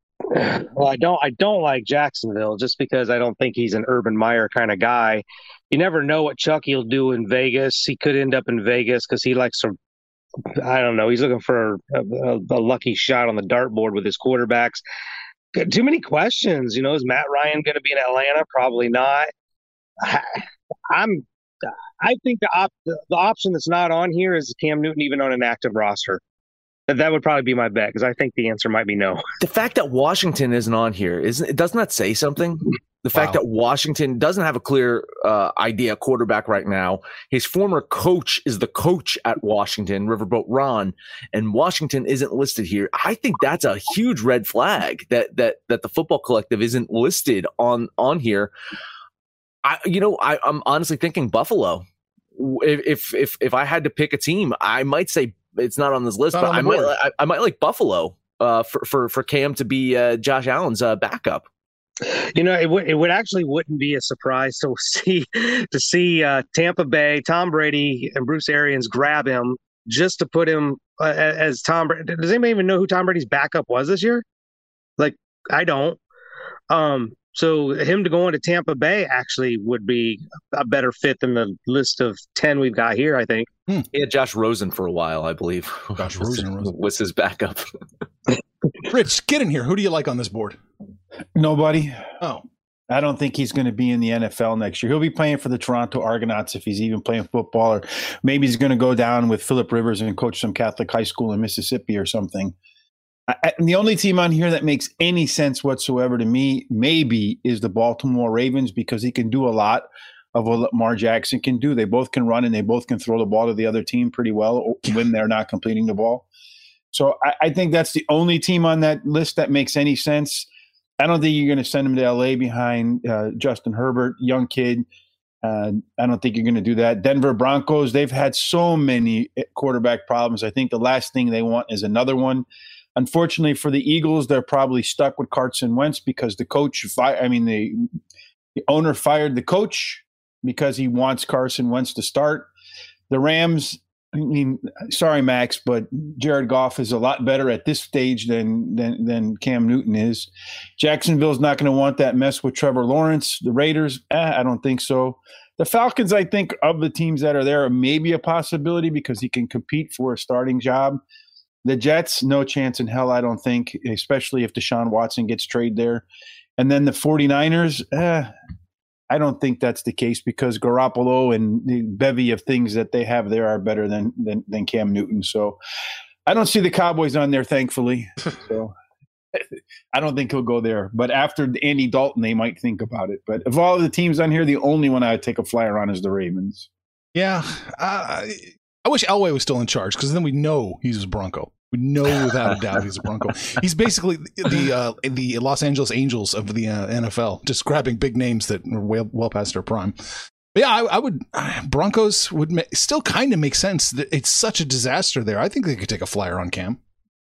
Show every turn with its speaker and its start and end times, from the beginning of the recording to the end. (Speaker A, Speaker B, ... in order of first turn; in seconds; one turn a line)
Speaker A: 0.3-9.8
Speaker A: 10.5-14.8
Speaker A: 15.5-19.3
Speaker A: 20.0-21.3
Speaker A: 22.0-26.2
Speaker A: 26.9-29.2
Speaker B: 29.4-48.5
Speaker C: 33.1-33.4
Speaker B: 49.6-51.8
Speaker B: 52.4-61.5
Speaker C: 56.3-57.0
Speaker A: 62.1-74.2
Speaker A: 75.0-76.0
Speaker A: 76.7-83.5
Speaker B: 83.9-87.7
Speaker C: 86.0-86.7
Speaker C: 88.8-90.6
Speaker D: 91.3-92.0
Speaker D: 92.9-102.5
Speaker D: 103.3-116.3
Speaker D: 116.9-120.5
Speaker D: 121.0-124.9
Speaker D: 125.4-137.9
Speaker D: 138.7-142.5
Speaker D: 143.1-161.0
Speaker D: 161.7-166.1
Speaker D: 166.6-168.3
Speaker D: 169.1-175.6
Speaker D: 176.3-178.7
Speaker D: 179.9-186.7
Speaker C: 187.2-200.0
Speaker C: 200.5-206.8